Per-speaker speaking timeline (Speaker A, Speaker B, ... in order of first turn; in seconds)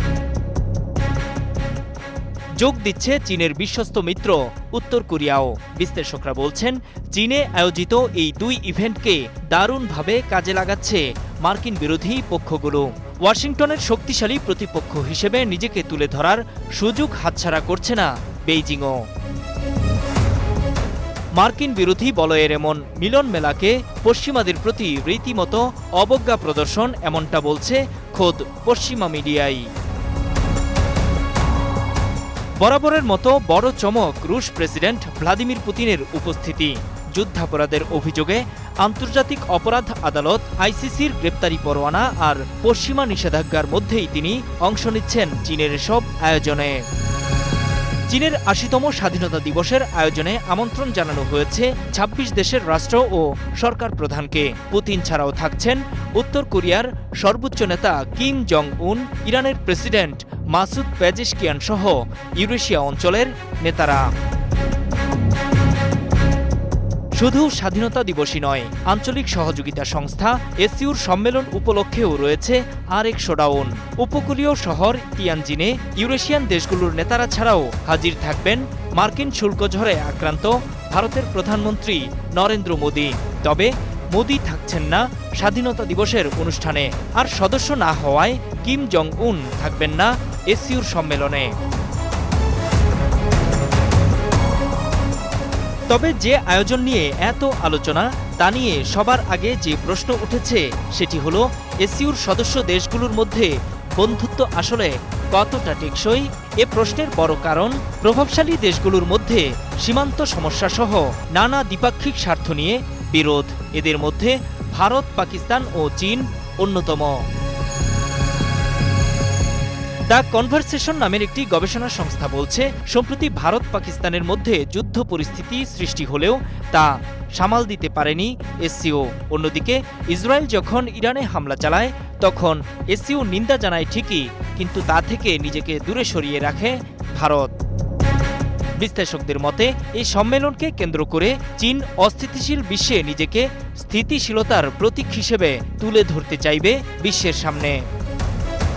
Speaker A: 2.6-19.0, 21.4-29.7, 32.6-46.8, 48.1-64.1, 67.2-91.5, 95.9-117.2, 120.1-137.5, 138.8-147.8